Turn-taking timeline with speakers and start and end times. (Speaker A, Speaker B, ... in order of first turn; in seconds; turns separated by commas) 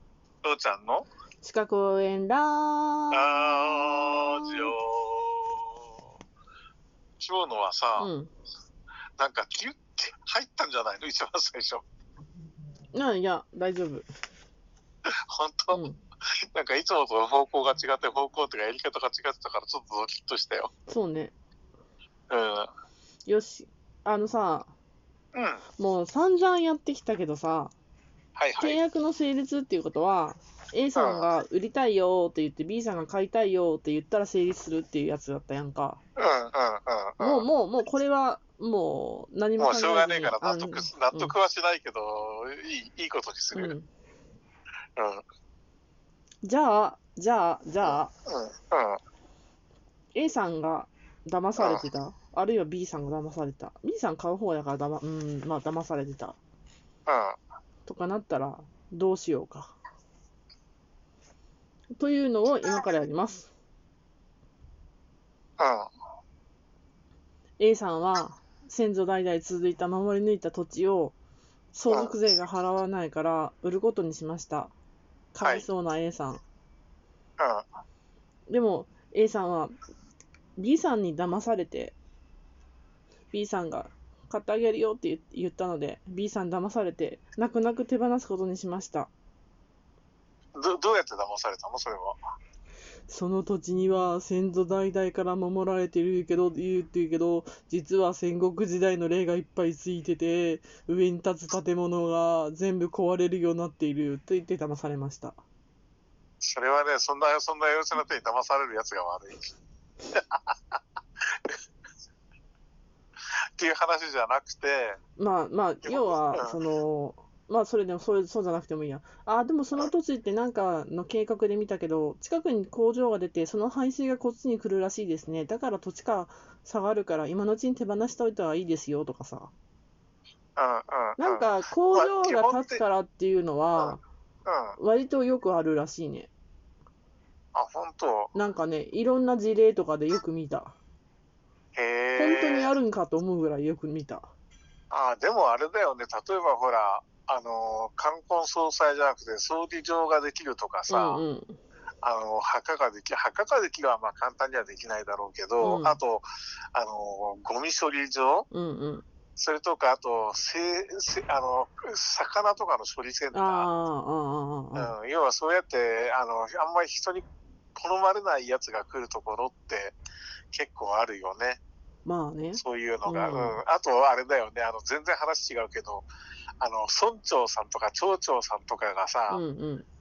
Speaker A: 0.4-1.1, Speaker B: 1.4-4.7, Speaker A: 3.1-5.8, Speaker A: 7.2-8.1, Speaker B: 8.0-8.3, Speaker A: 9.2-11.8, Speaker B: 12.9-14.1, Speaker A: 15.3-15.8, Speaker B: 15.7-16.0, Speaker A: 16.5-20.7, Speaker B: 20.9-21.3, Speaker A: 22.3-22.7, Speaker B: 23.3-24.7, Speaker A: 25.3-25.6, Speaker B: 25.8-27.7, Speaker A: 28.4-28.8, Speaker B: 28.6-36.0, Speaker A: 30.9-31.3, Speaker A: 36.2-37.5, Speaker B: 37.2-41.3, Speaker A: 39.6-43.7, Speaker B: 43.5-43.9, Speaker A: 45.0-45.2, Speaker B: 46.4-48.1, Speaker A: 47.8-49.0, Speaker B: 50.1-56.4, Speaker A: 51.6-51.8, Speaker A: 57.1-57.4, Speaker B: 57.9-59.7, Speaker B: 62.0-63.5, Speaker A: 65.6-65.9, Speaker B: 67.6-71.1, Speaker B: 71.7-74.7, Speaker B: 75.3-76.4, Speaker A: 77.4-77.6, Speaker B: 78.5-79.7, Speaker B: 80.6-82.0, Speaker B: 83.3-89.1, Speaker A: 90.5-92.2, Speaker B: 93.1-105.4, Speaker A: 106.4-109.5, Speaker A: 110.1-111.5, Speaker A: 113.6-115.0, Speaker B: 115.2-129.5, Speaker A: 115.8-116.5, Speaker A: 130.6-132.8, Speaker B: 131.2-134.0, Speaker A: 134.4-134.8, Speaker B: 134.8-136.3, Speaker A: 137.5-138.3, Speaker B: 138.3-140.8, Speaker A: 141.8-142.7, Speaker B: 142.2-144.3, Speaker A: 144.9-151.2, Speaker B: 150.9-151.6, Speaker A: 152.0-158.4, Speaker B: 155.6-156.0, Speaker B: 158.5-159.0, Speaker A: 159.4-163.7, Speaker B: 163.3-164.9, Speaker A: 164.8-167.2, Speaker A: 167.8-169.9, Speaker A: 170.5-171.6, Speaker B: 172.0-173.6, Speaker A: 172.6-176.1, Speaker A: 176.6-179.4, Speaker B: 179.3-179.9